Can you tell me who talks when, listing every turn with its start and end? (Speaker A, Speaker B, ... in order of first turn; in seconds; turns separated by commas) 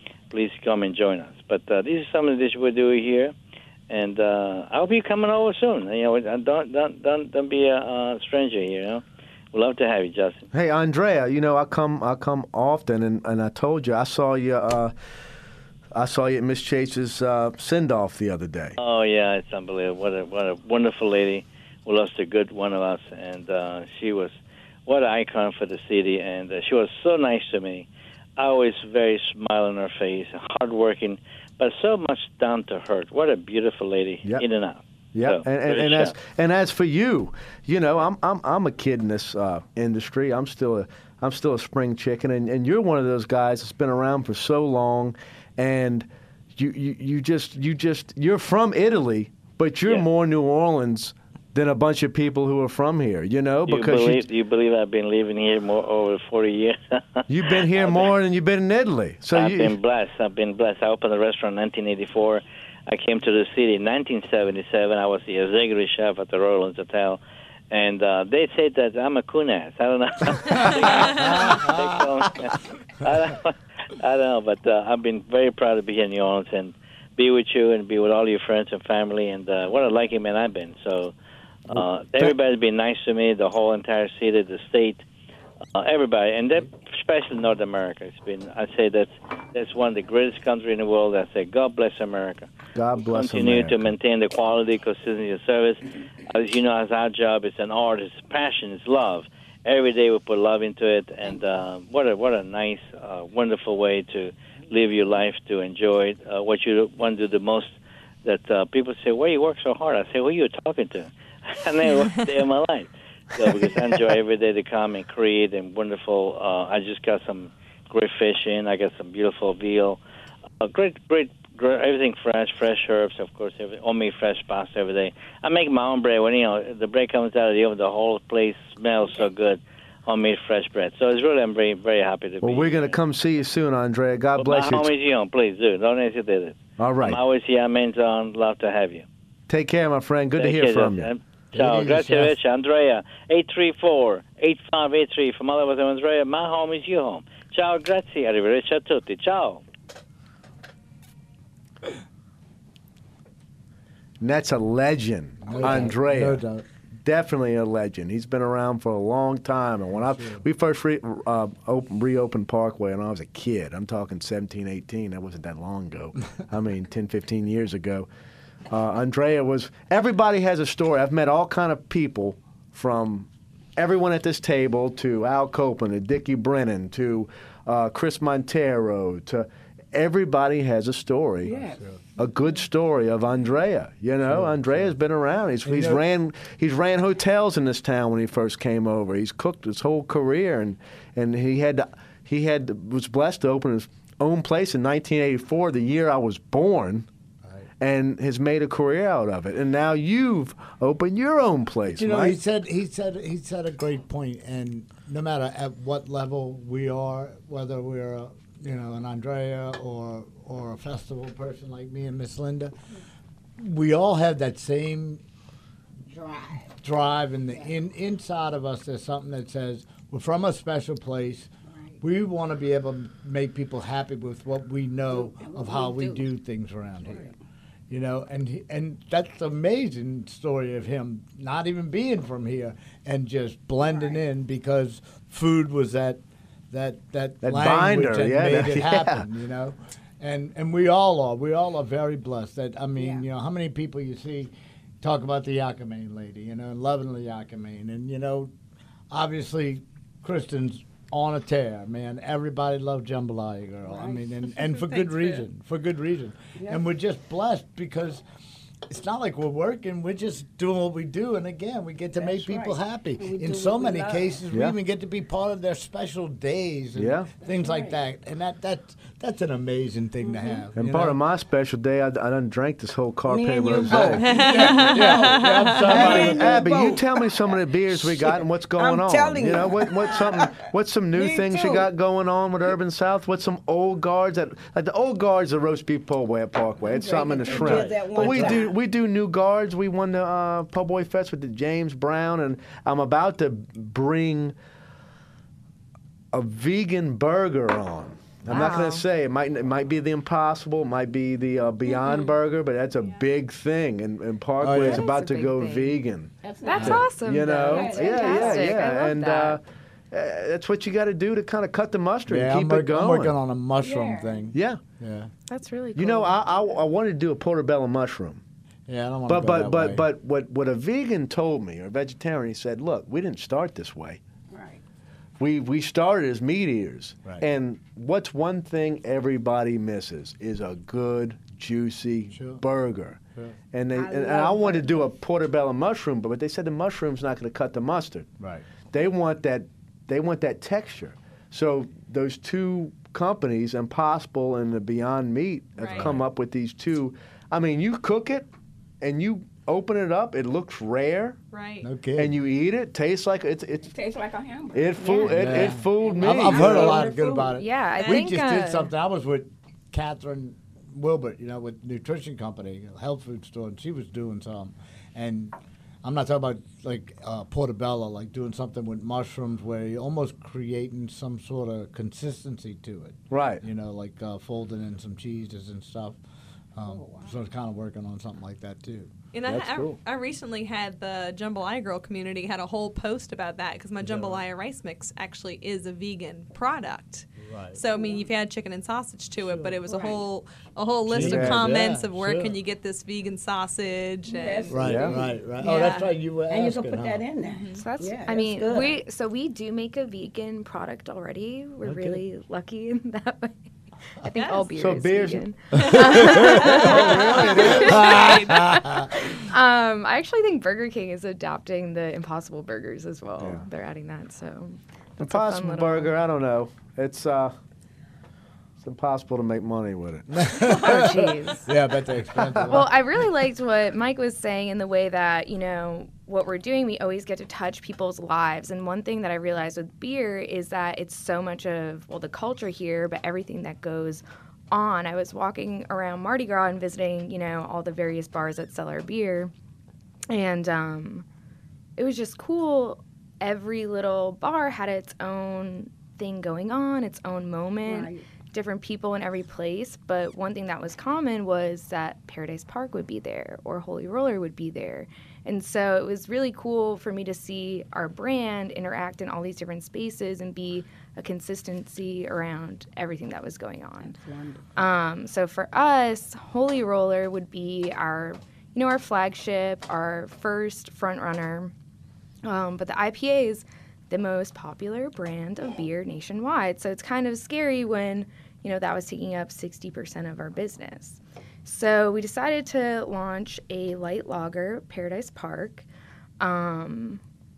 Speaker A: 0.3-3.3, Speaker A: 3.9-10.4, Speaker B: 10.5-14.9, Speaker B: 15.9-18.8, Speaker A: 18.8-24.4, Speaker A: 24.9-36.1, Speaker B: 35.1-54.2, Speaker A: 53.7-58.1, Speaker B: 57.3-59.8, Speaker A: 59.3-81.1, Speaker A: 81.7-85.0, Speaker B: 81.7-82.3, Speaker A: 85.7-120.0, Speaker B: 92.7-93.8, Speaker A: 120.6-133.0, Speaker B: 132.4-134.9, Speaker A: 134.4-139.0, Speaker B: 136.8-137.2, Speaker B: 139.5-141.1, Speaker A: 140.3-149.6, Speaker C: 141.5-142.3, Speaker B: 154.2-156.4, Speaker C: 155.4-156.6, Speaker B: 157.0-168.1, Speaker C: 160.0-160.4, Speaker B: 168.7-181.6, Speaker D: 181.4-181.8, Speaker B: 182.2-197.1, Speaker C: 184.2-184.9, Speaker C: 185.6-186.0, Speaker B: 197.8-202.4, Speaker C: 201.9-212.7, Speaker C: 213.6-215.2, Speaker D: 216.1-216.7, Speaker C: 216.8-221.5, Speaker D: 217.5-217.8, Speaker D: 221.7-222.0, Speaker C: 222.0-227.3, Speaker D: 225.1-226.3, Speaker D: 227.0-227.3, Speaker C: 227.9-248.5, Speaker D: 233.8-234.2, Speaker B: 237.4-239.3, Speaker D: 243.0-243.2, Speaker C: 249.1-258.2, Speaker D: 253.8-255.4, Speaker D: 256.6-256.8, Speaker C: 258.9-271.2, Speaker D: 262.1-264.4, Speaker B: 266.9-267.3, Speaker D: 267.4-268.0, Speaker D: 270.2-270.6, Speaker B: 270.7-275.4, Speaker D: 273.3-280.6, Speaker C: 273.8-276.6, Speaker E: 274.2-276.2, Speaker B: 275.9-294.5, Speaker D: 281.1-281.9, Speaker D: 286.8-288.7, Speaker C: 287.4-288.6, Speaker B: 296.3-313.4, Speaker F: 298.5-299.0, Speaker C: 304.6-305.0, Speaker F: 304.8-306.0, Speaker D: 306.4-308.8, Speaker F: 306.6-309.6, Speaker C: 312.3-315.3, Speaker D: 313.8-314.5, Speaker B: 314.5-314.8, Speaker F: 315.5-316.4, Speaker B: 315.9-318.4, Speaker C: 318.9-320.1, Speaker B: 319.3-324.2, Speaker D: 324.5-324.8, Speaker B: 325.4-333.2, Speaker C: 332.3-332.6, Speaker B: 333.7-338.3, Speaker D: 333.9-335.1, Speaker C: 338.4-338.6, Speaker B: 338.9-348.5, Speaker E: 345.8-346.1, Speaker C: 345.9-346.2, Speaker B: 349.0-351.4, Speaker E: 351.5-351.9, Speaker C: 351.8-352.3, Speaker B: 352.1-353.9, Speaker D: 353.9-357.6, Speaker B: 354.7-357.1, Speaker C: 355.2-376.2, Speaker F: 357.5-358.9, Speaker E: 358.0-358.2, Speaker B: 373.3-373.6, Speaker C: 376.8-379.1, Speaker D: 376.8-377.3, Speaker E: 379.3-395.0, Speaker B: 379.4-380.0, Speaker C: 384.0-384.4, Speaker C: 387.4-387.8, Speaker D: 387.9-388.2, Speaker C: 389.4-389.8, Speaker D: 389.9-390.2, Speaker C: 391.1-392.6, Speaker B: 391.2-391.7, Speaker D: 394.2-399.0, Speaker C: 394.7-397.2, Speaker B: 394.8-395.1, Speaker E: 397.5-397.8, Speaker F: 397.8-403.6, Speaker C: 401.8-402.2, Speaker F: 404.2-416.1, Speaker E: 404.3-404.7, Speaker B: 404.7-405.5, Speaker C: 405.8-406.8, Speaker E: 406.4-408.8, Speaker B: 406.5-408.2, Speaker C: 407.4-409.1, Speaker B: 413.4-413.6, Speaker B: 415.2-417.5, Speaker B: 418.8-420.7, Speaker C: 420.3-422.9, Speaker F: 420.6-421.7, Speaker B: 422.4-422.8, Speaker F: 422.6-439.5, Speaker F: 440.3-441.2, Speaker F: 442.0-464.1, Speaker D: 447.8-448.2, Speaker D: 464.0-464.8, Speaker F: 464.8-471.7, Speaker F: 472.4-485.9, Speaker F: 486.4-487.2